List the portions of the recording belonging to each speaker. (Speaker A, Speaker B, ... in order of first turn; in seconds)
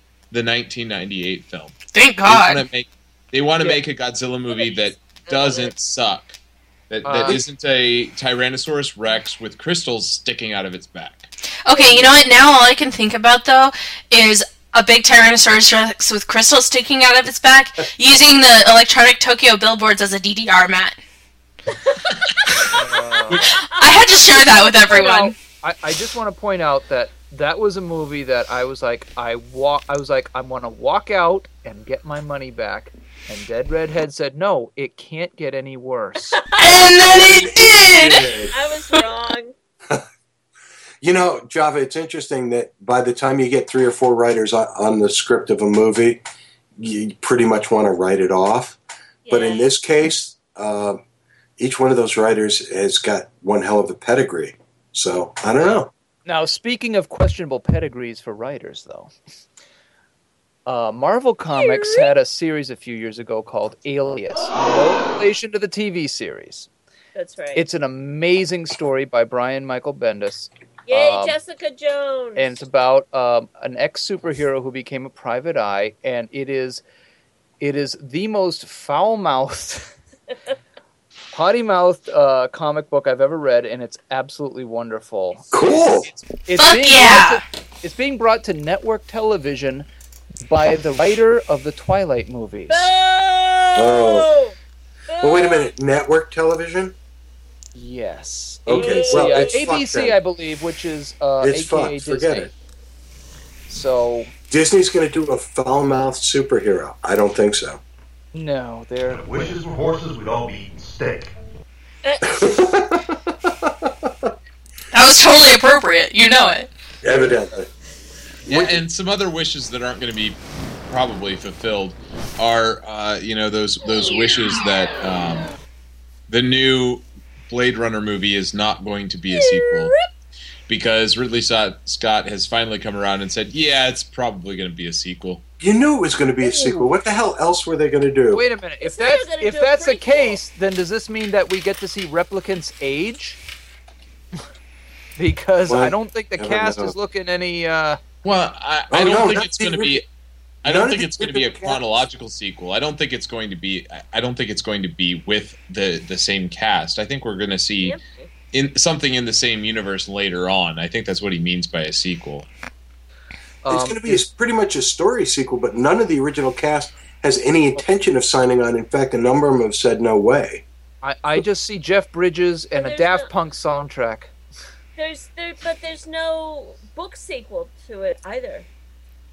Speaker A: 0.3-6.4, 6.9-11.3, 118.5-125.5, 126.3-129.9, 130.7-135.4, 148.2-150.1, 150.6-158.0, 158.5-162.4
Speaker B: 1.9-2.6, 11.7-21.0, 23.3-25.4, 36.6-38.3, 86.5-87.4, 114.9-116.7
Speaker C: 4.5-5.7, 21.7-22.6, 23.3-24.4, 36.4-36.8, 38.5-39.5, 49.2-49.7, 61.5-62.1, 67.1-67.6, 70.9-72.5, 92.7-94.5, 95.1-95.7, 98.7-99.7, 112.0-112.3, 129.3-130.1, 138.8-140.4, 157.8-158.3, 172.7-173.3, 175.0-178.7
Speaker D: 7.0-7.4, 22.7-23.4, 24.9-36.4, 55.6-59.1, 60.6-66.7, 67.5-71.3, 72.3-76.8, 77.6-80.0, 81.3-89.9, 90.4-92.9, 97.7-102.5, 103.7-104.3, 108.3-109.6, 138.3-143.4, 145.2-148.0, 163.6-164.2, 171.0-174.3
Speaker E: 7.2-7.4, 37.0-38.5, 41.0-46.2, 46.8-48.8, 49.3-51.0, 51.6-55.9, 85.5-86.1, 93.8-94.3, 95.2-96.9, 98.7-100.2, 101.4-102.5, 104.5-107.8, 112.2-114.3, 117.0-117.7, 118.5-118.8, 135.6-138.4, 145.7-146.9, 148.9-150.0, 150.6-151.8, 163.7-170.6
Speaker F: 109.1-111.3